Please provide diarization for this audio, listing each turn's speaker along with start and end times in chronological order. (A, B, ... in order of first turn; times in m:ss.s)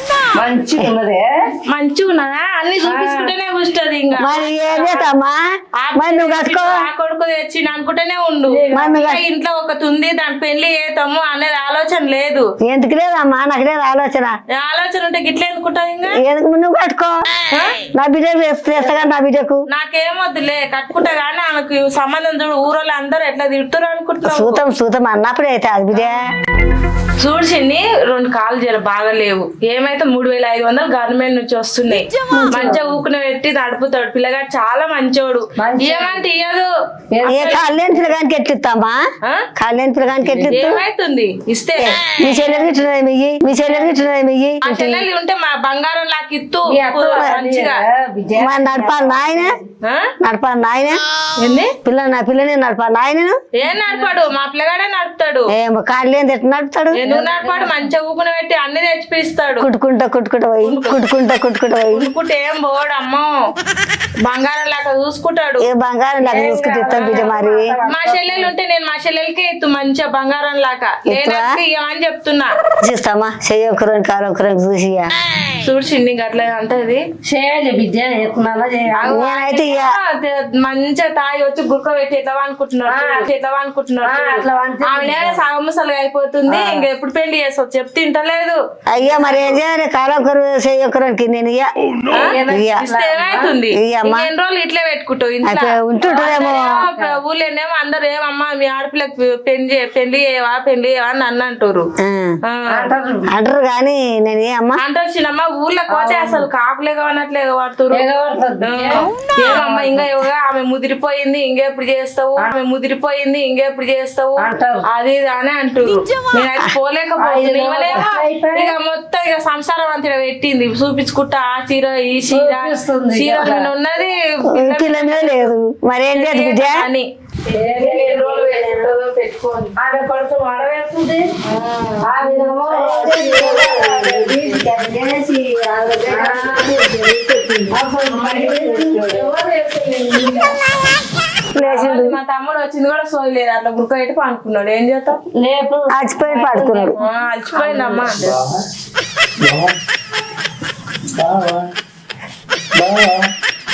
0:00.2-0:01.3 A
0:01.7-0:05.1 B
0:02.8-0:03.3 A
0:04.2-0:05.4 C
0:05.8-0:12.4 B
0:05.9-0:06.9 C
0:08.5-0:09.0 A
0:08.7-0:09.2 C
0:12.6-0:14.3 C
0:14.5-0:16.2 B
0:16.2-0:17.3 C
0:17.5-0:17.8 B
0:17.9-0:19.6 C
0:19.7-0:24.6 B
0:24.2-0:26.2 C
0:27.2-0:36.7 B
0:32.4-0:32.8 A
0:35.6-0:36.2 A
0:37.1-0:38.1 A
0:37.2-0:37.8 B
0:37.2-0:39.0 C
0:39.6-0:40.8 C
0:40.1-0:40.7 A
0:40.5-0:42.6 B
0:41.8-0:45.0 C
0:44.6-0:47.8 B
0:46.6-0:49.7 A
0:47.1-0:47.4 C
0:48.4-0:49.6 C
0:49.8-0:50.1 B
0:50.2-0:51.0 C
0:51.4-0:51.7 B
0:51.8-0:53.4 C
0:53.6-0:55.5 B
0:53.7-0:54.2 A
0:55.5-0:57.0 C
0:56.9-0:59.7 B
0:57.0-0:57.9 A
0:59.6-1:02.1 C
1:00.6-1:01.0 B
1:01.9-1:03.3 B
1:04.2-1:05.7 B
1:05.6-1:07.8 C
1:06.2-1:08.5 A
1:07.9-1:12.5 B
1:11.1-1:11.6 C
1:12.8-1:15.1 C
1:15.6-1:17.0 B
1:17.2-1:19.1 A
1:19.0-1:28.6 B
1:19.1-1:19.9 C
1:22.8-1:23.3 A
1:24.0-1:25.5 A
1:26.5-1:26.8 A
1:28.9-1:31.7 C
1:32.1-1:41.9 B
1:32.2-1:33.6 A
1:32.5-1:32.9 C
1:33.7-1:34.3 C
1:35.4-1:36.8 C
1:36.0-1:37.2 A
1:42.0-1:42.4 C
1:42.4-1:42.9 B
1:42.7-1:43.4 A
1:43.3-1:44.8 C
1:44.8-1:48.0 B
1:45.9-1:46.5 A
1:47.9-1:50.1 A
1:48.6-2:05.5 B
1:54.4-1:54.9 A
1:57.2-1:58.8 A
2:02.3-2:03.7 A
2:04.5-2:06.9 C
2:06.1-2:09.8 B
2:07.5-2:08.8 A
2:09.8-2:11.3 A
2:11.4-2:12.7 B
2:12.0-2:19.3 A
2:12.7-2:16.7 C
2:13.3-2:14.5 B
2:16.2-2:16.6 B
2:18.1-2:20.5 B
2:21.6-2:22.2 C
2:21.6-2:25.2 B
2:25.3-2:26.9 A
2:25.9-2:27.0 C
2:26.6-2:28.4 B
2:27.5-2:28.2 A
2:28.1-2:28.6 D
2:29.4-2:29.8 D
2:31.1-2:31.7 D
2:32.7-2:33.3 D